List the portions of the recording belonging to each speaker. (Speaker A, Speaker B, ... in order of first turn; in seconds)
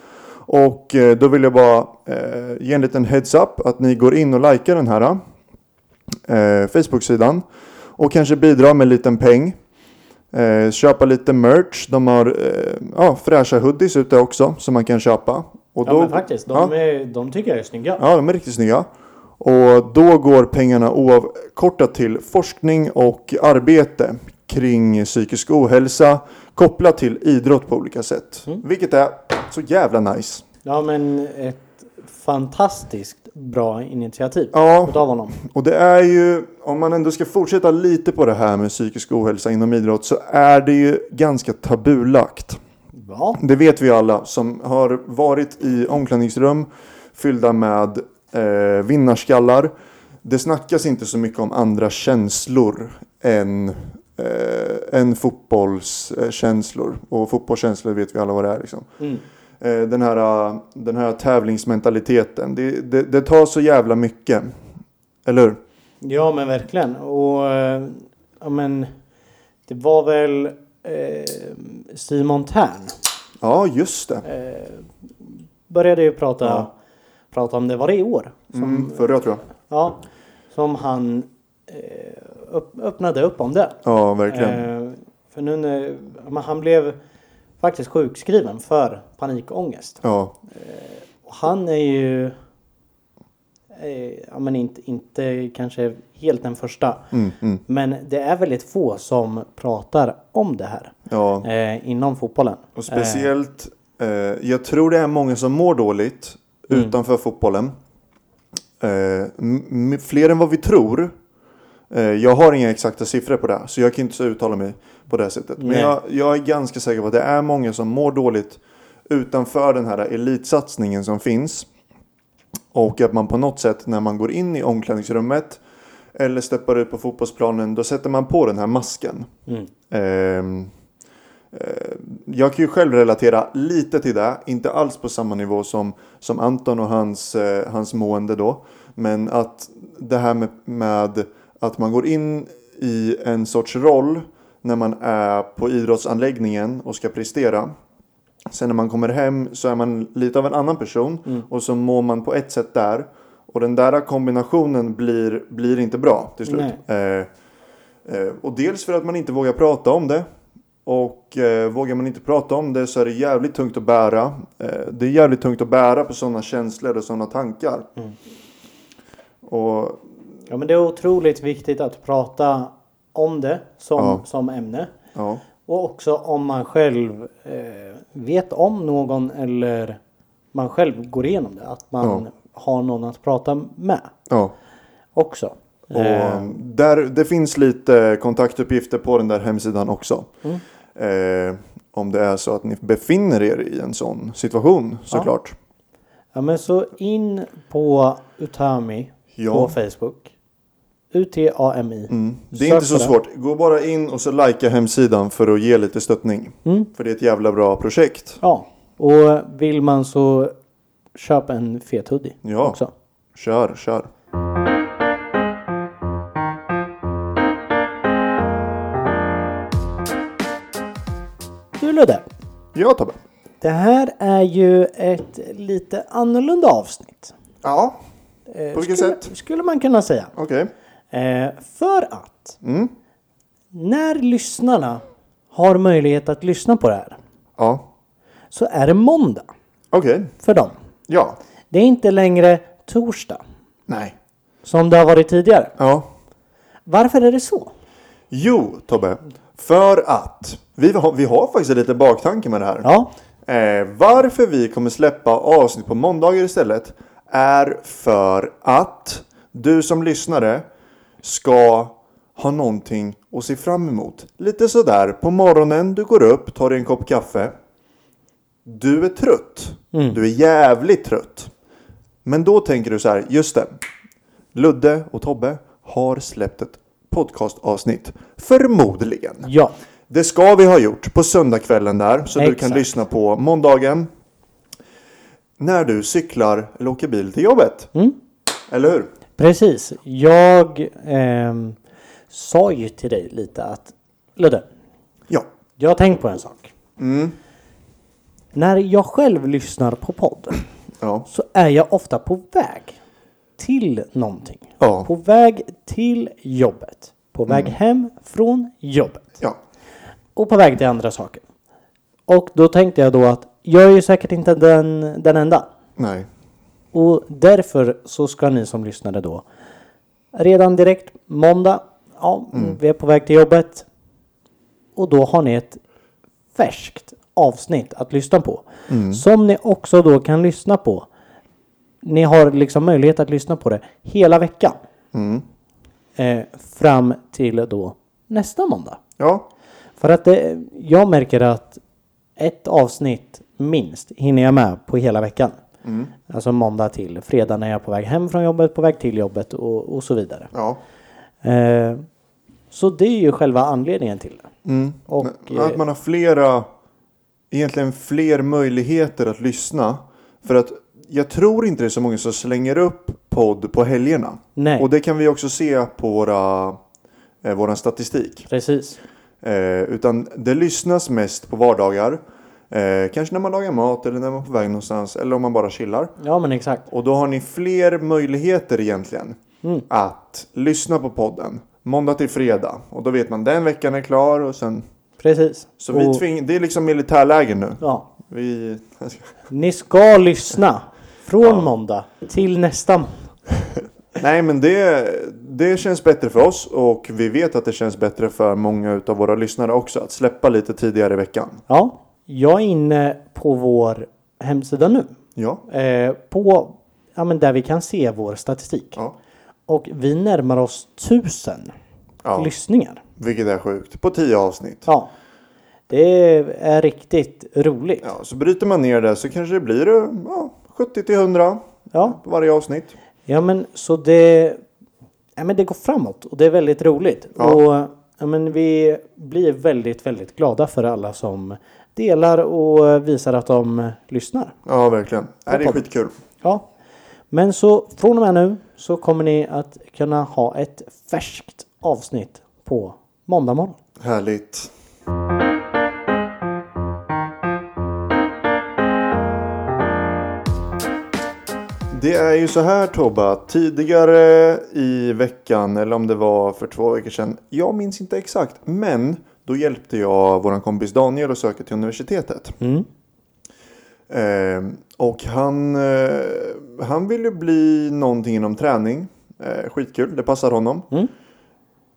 Speaker A: 0.5-5.2, 6.3-7.4, 8.0-9.6, 10.3-16.7, 18.0-18.9, 19.4-30.4, 34.5-42.6, 43.4-49.7, 50.2-58.9, 59.6-64.5, 65.2-65.6, 73.4-74.2, 78.5-79.5, 83.8-84.7, 90.0-90.4, 97.1-97.6, 101.1-101.5, 102.8-107.8, 108.8-111.1, 111.9-121.7, 122.7-125.6, 126.2-129.3, 129.9-130.7, 131.5-147.7, 148.5-157.3, 158.1-160.2, 160.8-167.9, 169.4-170.0, 174.0-174.2, 175.1-175.4, 184.3-184.5, 185.9-190.3, 191.0-195.5, 199.3-199.8, 202.1-208.4, 212.4-212.8, 213.3-214.1, 222.7-223.2, 227.6-228.0, 228.7-229.3, 230.3-230.7, 232.6-232.9, 237.6-237.8, 239.9-240.3, 241.1-241.4, 243.9-244.2, 245.8-246.1, 248.3-252.9, 253.5-260.7, 261.2-267.5, 268.6-271.5, 272.2-273.8, 274.5-279.5, 280.1-284.1, 285.6-287.9, 288.7-289.1, 297.0-297.4, 301.0-301.3, 304.8-305.1, 307.5-307.8, 316.0-316.3, 322.5-322.8, 328.9-329.2, 335.1-335.4, 339.2-339.5, 345.8-346.1, 350.5-350.8, 354.6-356.7, 357.5-366.8, 367.4-368.5, 369.4-376.1, 376.9-384.9, 385.8-389.3, 394.2-401.6, 405.4-405.6, 412.2-412.5, 413.2-414.9, 418.0-422.9, 434.7-436.2, 444.0-444.7, 451.9-462.6, 464.1-470.9
Speaker B: 15.8-18.0, 30.6-35.4, 42.9-43.4, 66.0-68.9, 69.7-73.0, 74.2-74.9, 75.7-76.7, 77.3-79.1, 79.7-87.0, 87.6-92.3, 93.7-97.1, 97.7-103.3, 115.6-116.0, 156.4-156.8, 170.5-174.9, 175.7-180.0, 180.5-184.1, 185.2-186.5, 196.3-200.3, 201.1-203.1, 208.4-210.5, 211.2-212.9, 221.8-222.3, 223.6-227.3, 228.5-230.3, 231.1-232.6, 233.7-237.2, 238.5-239.5, 240.4-240.8, 241.7-243.4, 244.6-245.8, 246.9-247.7, 252.8-253.1, 269.9-270.2, 279.4-279.8, 282.4-282.9, 289.4-291.8, 292.3-294.7, 295.8-296.7, 298.5-300.6, 301.3-303.0, 303.6-309.3, 310.4-311.4, 312.3-315.7, 316.9-319.4, 320.3-323.9, 325.0-325.8, 326.5-331.1, 332.0-334.8, 336.2-339.0, 340.0-341.8, 342.4-345.6, 346.3-350.5, 351.4-352.1, 352.7-354.5, 355.1-355.8, 364.6-364.9, 368.5-369.0, 376.2-376.9, 385.2-386.2, 387.8-388.1, 389.5-393.3, 401.7-405.2, 405.7-409.0, 409.7-411.8, 412.4-413.0, 414.9-415.1, 415.9-418.1, 421.9-422.2, 423.3-424.6, 425.4-434.5, 435.5-435.8, 437.3-443.8, 462.6-462.9